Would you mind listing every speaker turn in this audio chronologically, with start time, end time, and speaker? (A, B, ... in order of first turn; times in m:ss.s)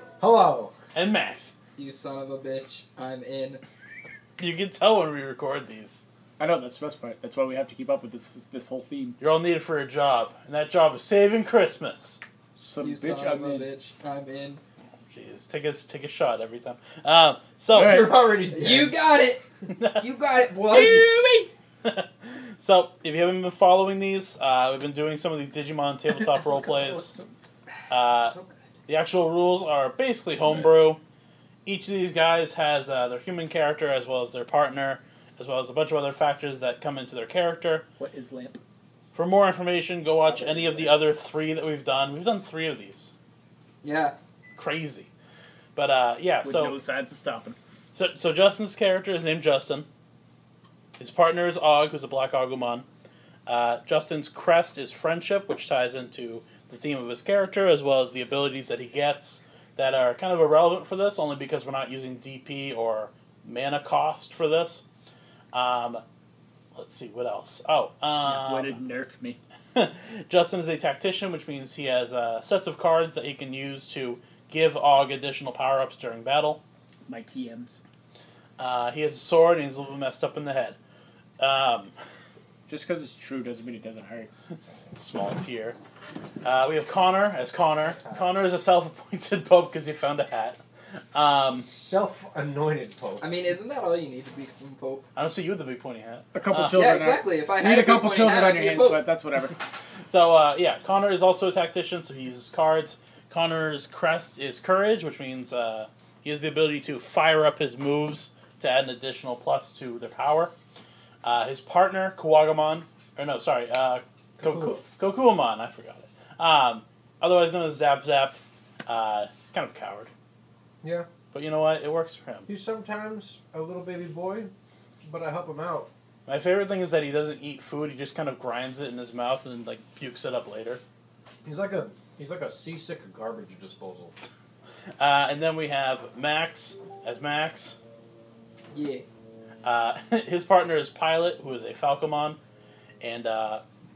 0:00.2-0:00.7 A
0:00.9-0:01.6 B
0:01.8-0:03.6 C
0:04.4-0:06.0 B
0:06.4-0:09.2 D
0:09.2-0:12.2 B
0:12.6-0:13.7 D
0:12.8-0:14.6 C
0:15.1-0:18.1 B
0:17.7-0:18.1 D
0:17.7-0:19.0 A
0:18.5-0:19.4 C
0:19.7-0:20.0 B
0:20.0-0:21.5 C
0:20.7-0:21.0 B
0:21.8-0:27.1 B
0:26.6-0:27.3 D
0:27.9-0:28.3 B
0:28.9-0:31.0 B
0:31.6-0:37.8 B
0:38.0-0:38.6 D
0:39.1-0:43.1 B
0:40.2-0:41.0 A
0:43.8-0:44.1 C
0:44.5-0:45.1 B
0:45.8-0:46.8 B
0:46.4-0:47.6 D
0:47.9-0:49.9 B
0:51.0-0:52.8 B
0:53.5-1:04.8 B
1:05.5-1:06.0 B
1:06.7-1:08.8 B
1:08.2-1:09.4 D
1:09.7-1:16.6 B
1:17.0-1:17.8 D
1:18.6-1:20.8 B
1:21.4-1:21.9 B
1:22.7-1:24.3 D
1:24.9-1:25.8 B
1:26.4-1:30.6 B
1:27.8-1:28.3 A
1:31.1-1:31.7 B
1:31.5-1:33.3 A
1:33.2-1:35.0 C
1:35.2-1:36.9 B
1:36.3-1:39.6 D
1:36.7-1:39.0 C
1:40.1-1:50.5 B
1:51.2-2:00.1 B
1:54.4-1:54.8 A
2:00.8-2:01.1 A
2:01.3-2:02.5 B
2:02.5-2:04.5 A
2:05.0-2:05.9 A
2:06.2-2:10.8 B
2:11.4-2:14.1 A
2:15.0-2:17.8 B
2:18.7-2:19.0 C
2:19.6-2:22.4 B
2:23.0-2:23.6 B